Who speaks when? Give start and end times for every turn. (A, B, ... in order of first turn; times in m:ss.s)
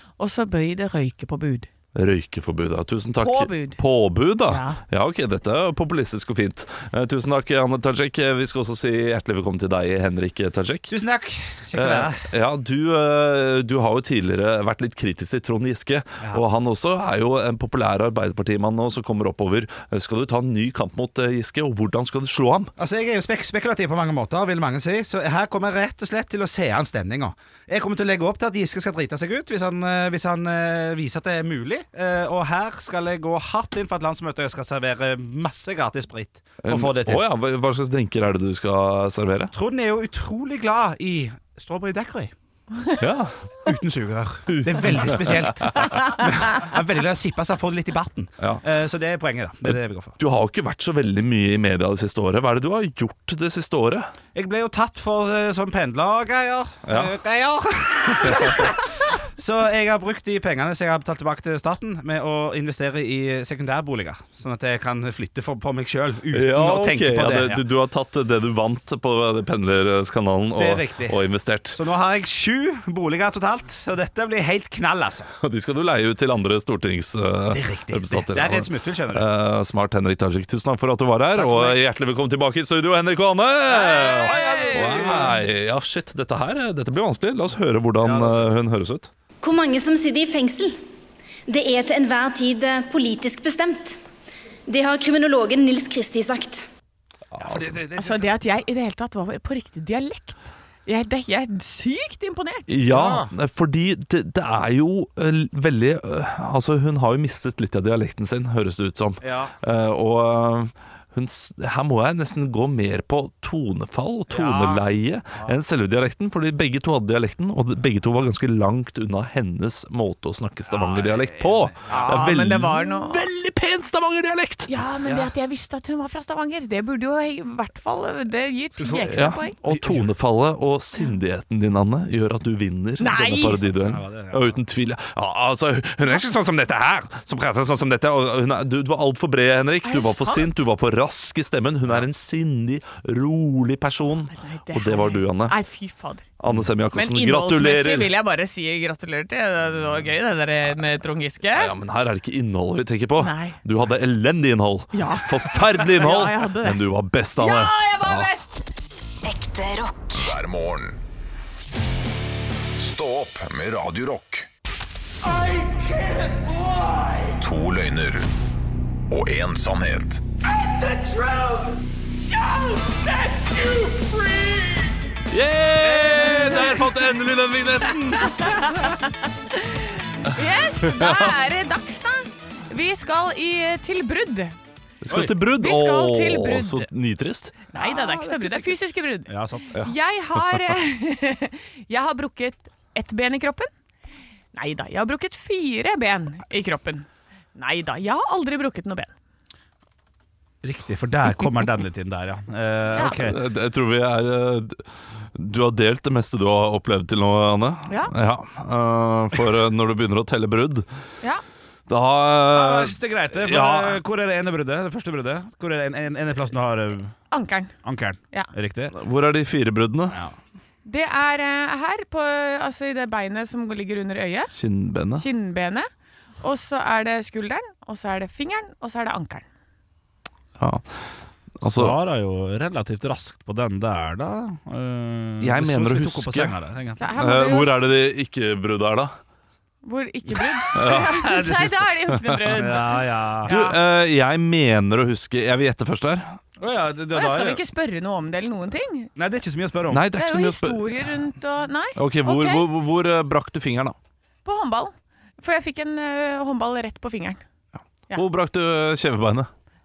0:00.2-0:01.7 A
0:01.9-0:10.9 B
0:03.2-0:03.8 A
0:04.5-0:04.8 A
0:10.9-0:12.2 C
0:11.7-0:22.7 B
0:22.8-0:37.2 C
0:36.6-0:39.5 B
0:39.5-0:42.3 C
0:43.0-0:43.5 B
0:43.6-0:50.2 C
0:44.5-0:46.0 B
0:49.6-0:54.1 B
0:54.3-0:58.8 C
0:56.8-0:57.1 B
0:58.2-0:58.7 B
0:59.4-1:07.6 C
1:06.3-1:11.8 B
1:10.6-1:11.2 C
1:11.7-1:15.3 C
1:15.4-1:29.1 B
1:17.5-1:19.3 C
1:21.3-1:21.8 C
1:23.8-1:25.4 C
1:24.0-1:25.0 A
1:28.0-1:28.5 C
1:29.4-1:30.8 D
1:31.5-1:34.0 D
1:34.7-1:36.6 D
1:37.3-1:37.7 B
1:37.4-1:38.3 C
1:38.0-1:42.7 A
1:42.7-2:04.7 B
1:42.9-1:43.3 C
1:49.2-1:49.5 C
1:54.3-1:54.8 C
2:00.7-2:02.2 C
2:01.9-2:03.2 A
2:04.7-2:09.6 A
2:08.8-2:10.1 C
2:09.1-2:25.6 B
2:13.0-2:13.6 A
2:13.7-2:14.6 C
2:19.8-2:20.5 A
2:24.3-2:26.3 A
2:26.4-2:28.1 B
2:26.9-2:31.7 A
2:31.5-2:38.3 B
2:33.2-2:33.6 A
2:34.9-2:38.6 A
2:39.2-2:40.2 D
2:40.1-2:41.0 E
2:42.8-2:44.5 E
2:47.4-2:48.3 E
2:49.1-2:50.2 E
2:52.4-2:53.5 A
2:53.8-2:54.8 C
2:55.3-2:58.7 B
2:55.9-2:56.8 C
2:56.2-2:56.6 A
2:58.2-3:04.5 A
3:00.8-3:01.3 B
3:05.0-3:07.6 B
3:05.5-3:06.9 A
3:07.7-3:13.7 A
3:07.7-3:09.8 C
3:09.7-3:10.6 B
3:14.5-3:19.1 A
3:20.6-3:23.4 C
3:23.0-3:30.9 B
3:31.9-3:34.0 B
3:32.5-3:37.1 C
3:37.3-3:37.7 A
3:37.8-3:39.0 C
3:38.9-3:40.2 B
3:40.8-3:44.5 A
3:44.5-3:45.2 B
3:45.1-3:45.9 A
3:46.4-3:49.4 A
3:50.6-3:51.0 B
3:51.6-3:52.0 B
3:51.6-3:57.1 C
3:55.4-3:56.5 B
3:57.0-3:57.8 A
3:57.1-3:59.1 B
3:59.8-4:03.8 A
4:00.7-4:01.2 B
4:00.7-4:01.8 C
4:02.1-4:02.6 B
4:02.5-4:03.5 C
4:03.4-4:06.4 B
4:06.6-4:07.6 C
4:07.1-4:09.1 A
4:09.2-4:10.1 C
4:09.9-4:11.1 B
4:10.1-4:12.7 A
4:12.0-4:14.0 B
4:14.4-4:17.4 A
4:18.1-4:19.5 B